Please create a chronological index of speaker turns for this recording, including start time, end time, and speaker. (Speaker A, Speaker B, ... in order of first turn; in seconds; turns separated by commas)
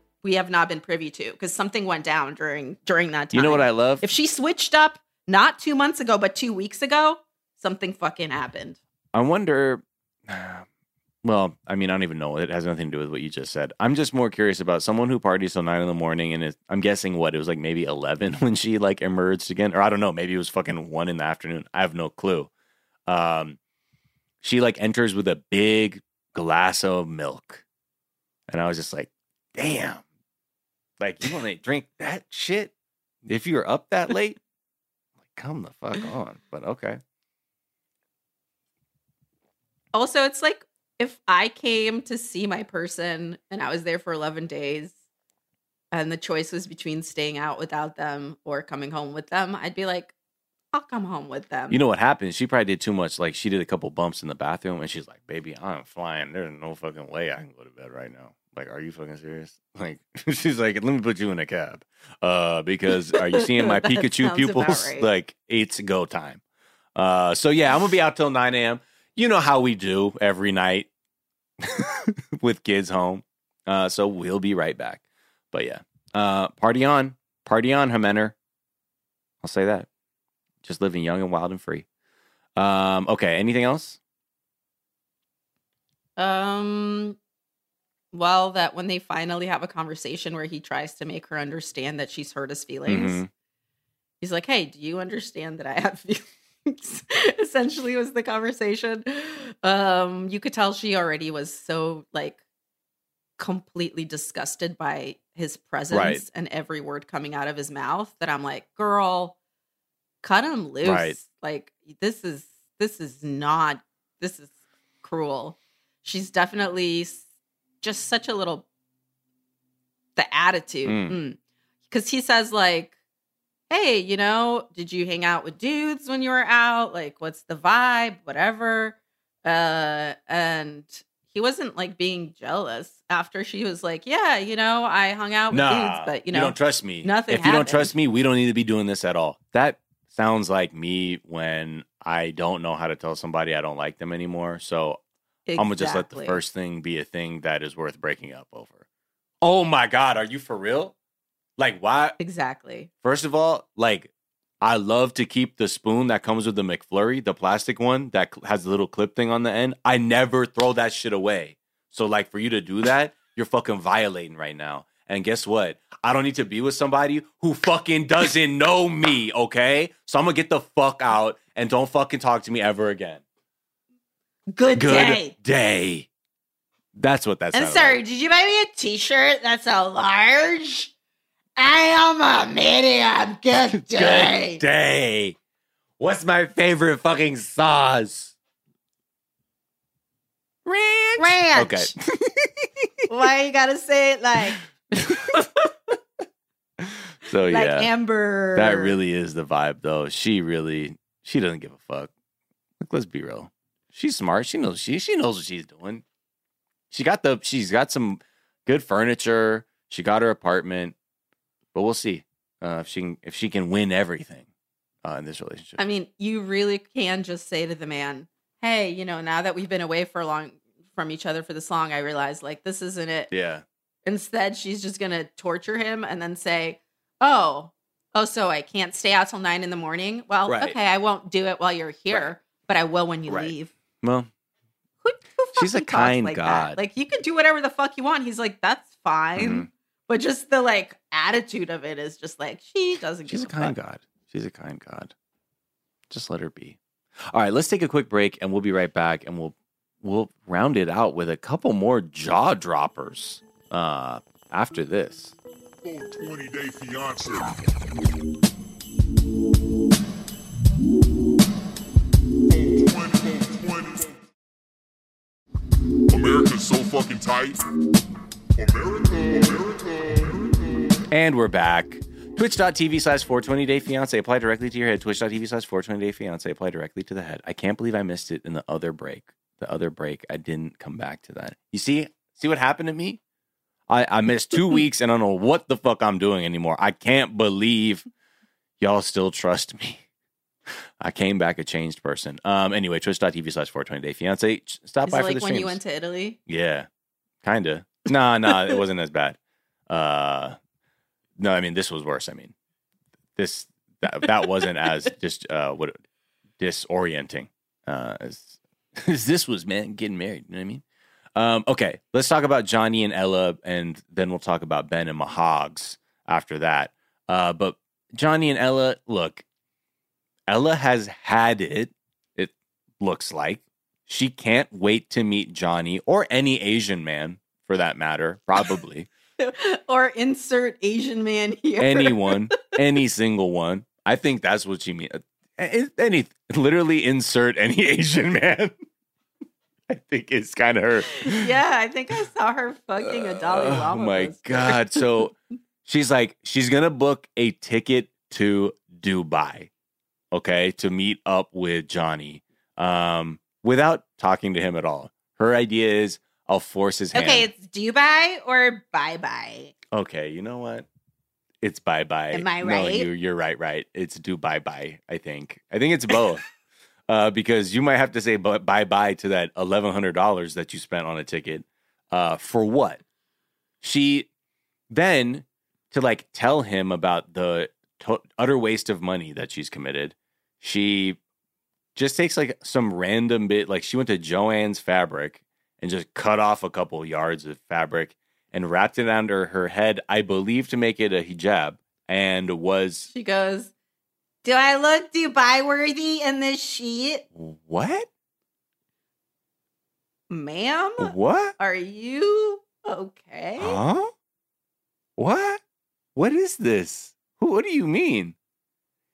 Speaker A: 0.2-8.8, Speaker B: 3.3-4.0, Speaker B: 9.1-10.7, Speaker B: 11.2-22.5, Speaker B: 23.1-23.6, Speaker B: 24.4-27.6, Speaker B: 28.5-30.0, Speaker B: 31.0-32.7, Speaker B: 33.2-34.4, Speaker B: 35.2-37.0, Speaker A: 39.9-45.0, Speaker A: 45.9-50.1, Speaker A: 50.7-51.8, Speaker B: 51.7-66.4, Speaker A: 63.1-65.1, Speaker B: 67.0-70.9, Speaker B: 71.6-78.3, Speaker B: 79.4-79.9, Speaker B: 80.6-81.9, Speaker B: 82.6-84.0, Speaker A: 86.2-87.2, Speaker A: 88.1-93.2, Speaker B: 92.9-93.3, Speaker A: 94.2-102.4, Speaker A: 103.4-109.4, Speaker B: 105.9-106.2, Speaker A: 110.2-117.3, Speaker B: 110.8-111.2, Speaker A: 117.8-118.7, Speaker A: 120.2-121.4, Speaker B: 120.8-121.2, Speaker A: 121.9-122.9, Speaker A: 123.7-137.9, Speaker B: 135.5-145.0, Speaker A: 145.5-146.4, Speaker B: 145.6-148.8, Speaker B: 149.4-150.9, Speaker B: 151.6-152.2, Speaker A: 152.2-152.9, Speaker B: 153.0-173.2, Speaker A: 174.5-175.3, Speaker B: 174.8-176.1, Speaker B: 176.9-178.0, Speaker A: 177.5-180.9, Speaker A: 181.6-184.6, Speaker B: 183.8-185.4, Speaker B: 186.0-188.3, Speaker B: 190.7-193.1, Speaker A: 191.2-191.9, Speaker A: 193.1-195.9, Speaker B: 195.0-195.3, Speaker B: 196.8-197.9, Speaker A: 197.5-199.0, Speaker B: 198.6-202.1, Speaker B: 202.8-206.0, Speaker B: 206.9-210.9, Speaker B: 211.7-214.5, Speaker B: 215.0-215.8, Speaker A: 215.8-223.3, Speaker B: 223.3-223.7, Speaker A: 224.1-233.7, Speaker B: 230.5-230.8, Speaker B: 233.3-234.3, Speaker A: 235.0-243.8, Speaker B: 235.6-236.8, Speaker B: 239.4-239.7, Speaker B: 243.3-245.1, Speaker B: 246.1-246.8, Speaker B: 247.3-255.4, Speaker C: 255.8-257.5, Speaker C: 262.5-264.1, Speaker C: 266.1-267.6, Speaker C: 268.6-270.5, Speaker B: 271.1-283.2, Speaker B: 283.9-288.1, Speaker B: 288.8-290.0, Speaker B: 291.0-295.8, Speaker A: 295.1-296.4, Speaker B: 296.5-296.9, Speaker B: 297.4-300.6, Speaker B: 301.4-302.5, Speaker B: 303.4-306.0, Speaker A: 304.5-304.8, Speaker B: 306.6-310.8, Speaker B: 311.4-319.4, Speaker B: 320.5-329.1, Speaker A: 329.4-332.4, Speaker B: 331.8-338.7, Speaker B: 339.9-341.5, Speaker A: 341.2-345.3, Speaker B: 343.0-345.3, Speaker B: 345.9-349.7, Speaker B: 350.3-357.5, Speaker A: 357.1-359.7, Speaker B: 359.9-360.9, Speaker B: 361.6-366.4, Speaker A: 362.3-363.1, Speaker B: 367.1-373.0, Speaker B: 373.8-374.3, Speaker B: 374.9-381.2, Speaker B: 382.0-393.1, Speaker A: 393.1-393.7, Speaker A: 394.4-397.2, Speaker B: 397.4-398.1, Speaker A: 400.3-403.8, Speaker B: 401.0-401.6, Speaker B: 403.6-404.1, Speaker B: 405.2-405.6, Speaker B: 406.1-408.4